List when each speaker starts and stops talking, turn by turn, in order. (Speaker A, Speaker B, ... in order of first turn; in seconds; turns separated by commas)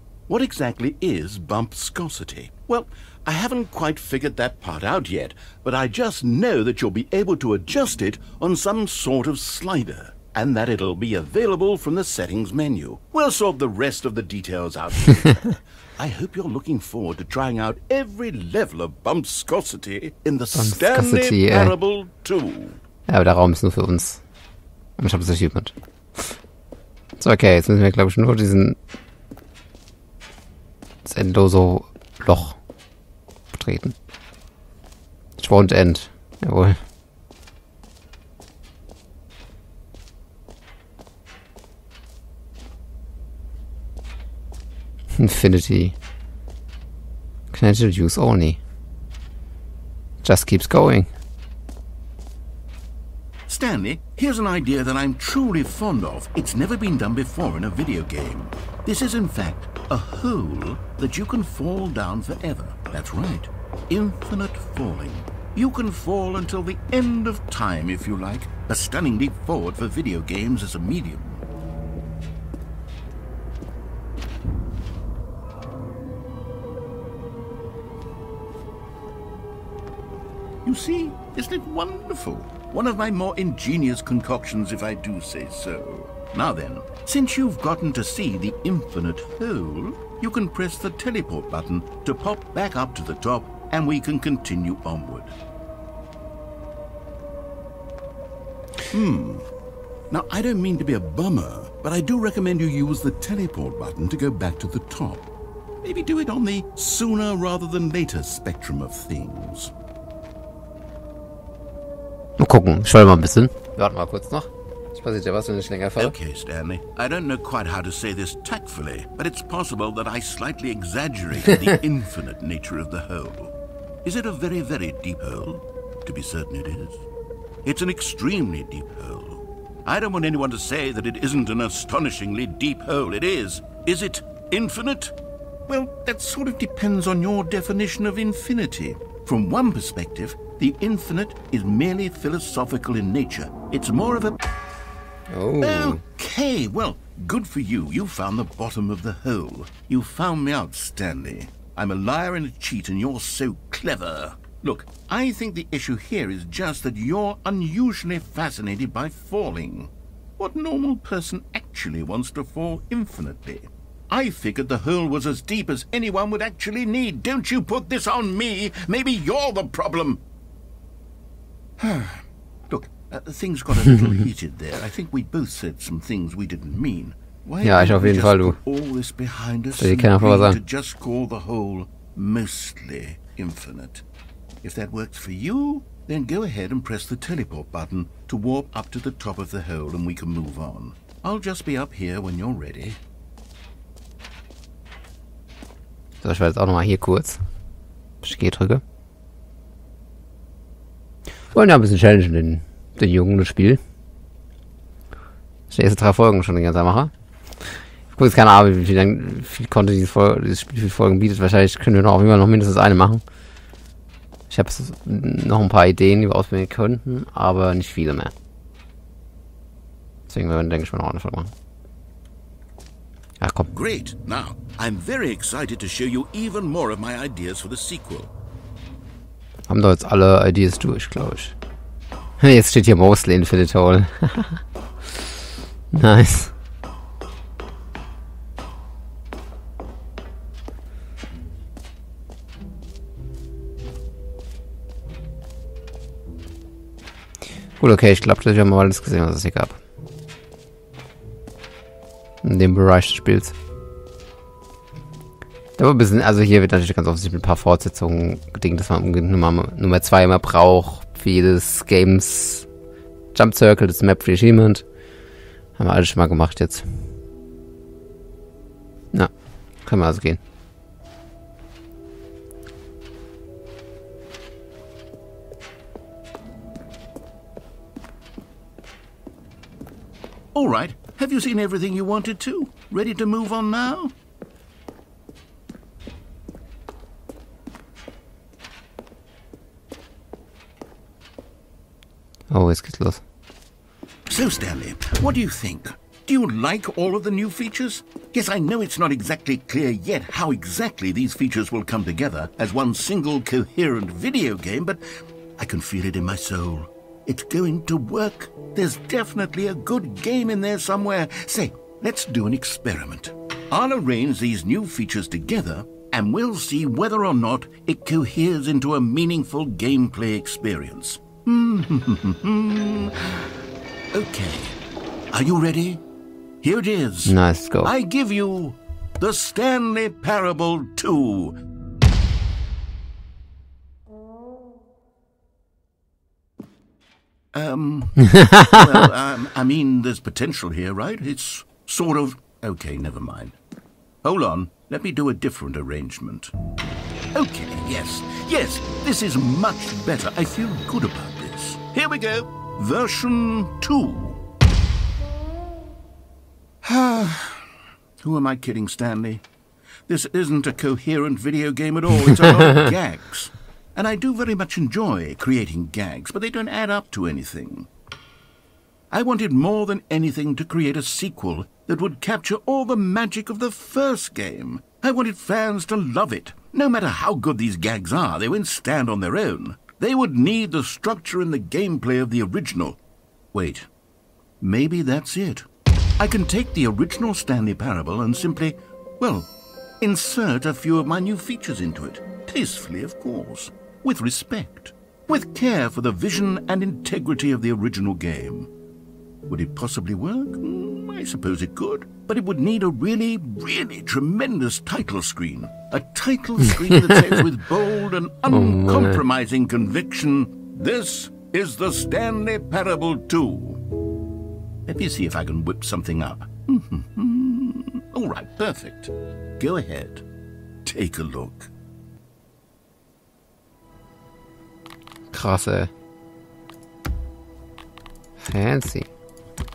Speaker A: 0.3-22.8, Speaker B: 20.5-21.7, Speaker B: 23.1-24.2, Speaker B: 25.0-26.3, Speaker B: 27.2-28.8, Speaker B: 31.0-32.6, Speaker B: 33.5-33.9, Speaker B: 35.4-36.8, Speaker B: 45.1-46.0, Speaker B: 47.5-48.6, Speaker B: 50.2-51.1, Speaker A: 53.5-71.4, Speaker A: 80.6-95.3, Speaker A: 98.9-99.5, Speaker A: 100.1-105.3, Speaker A: 105.8-109.7, Speaker B: 112.4-116.1, Speaker A: 116.0-127.0, Speaker A: 127.6-135.1, Speaker A: 135.7-144.4, Speaker B: 145.3-146.0, Speaker A: 145.6-170.2, Speaker A: 171.8-184.0, Speaker B: 177.6-178.6, Speaker B: 179.8-180.6, Speaker A: 184.6-193.0, Speaker B: 196.2-197.4, Speaker B: 198.2-198.8, Speaker B: 201.5-203.8, Speaker B: 205.7-207.1, Speaker B: 208.1-213.2, Speaker B: 214.5-218.3, Speaker B: 220.3-221.5, Speaker B: 223.4-223.7, Speaker A: 223.7-228.3, Speaker B: 229.7-231.5, Speaker B: 232.4-234.6, Speaker B: 235.9-236.5, Speaker B: 247.8-249.8, Speaker B: 252.4-253.5, Speaker B: 255.8-262.7, Speaker B: 263.3-264.8, Speaker B: 265.8-266.9, Speaker B: 269.8-270.4, Speaker A: 280.5-284.1, Speaker B: 292.5-293.2, Speaker A: 294.3-305.0, Speaker A: 305.6-323.5, Speaker A: 324.1-324.8, Speaker A: 325.3-326.0, Speaker A: 326.6-331.6, Speaker B: 327.2-327.9, Speaker A: 337.5-343.6, Speaker B: 338.2-339.0, Speaker A: 344.2-346.5, Speaker A: 347.3-354.4, Speaker A: 356.8-359.4, Speaker A: 360.1-367.9, Speaker A: 369.1-383.0, Speaker A: 383.5-383.9, Speaker A: 384.6-385.7, Speaker A: 386.2-389.5, Speaker A: 390.0-398.7, Speaker A: 399.5-413.8, Speaker B: 406.9-407.4, Speaker B: 408.5-409.2, Speaker A: 414.9-420.2, Speaker A: 420.8-421.7, Speaker B: 425.3-425.9, Speaker B: 428.4-429.1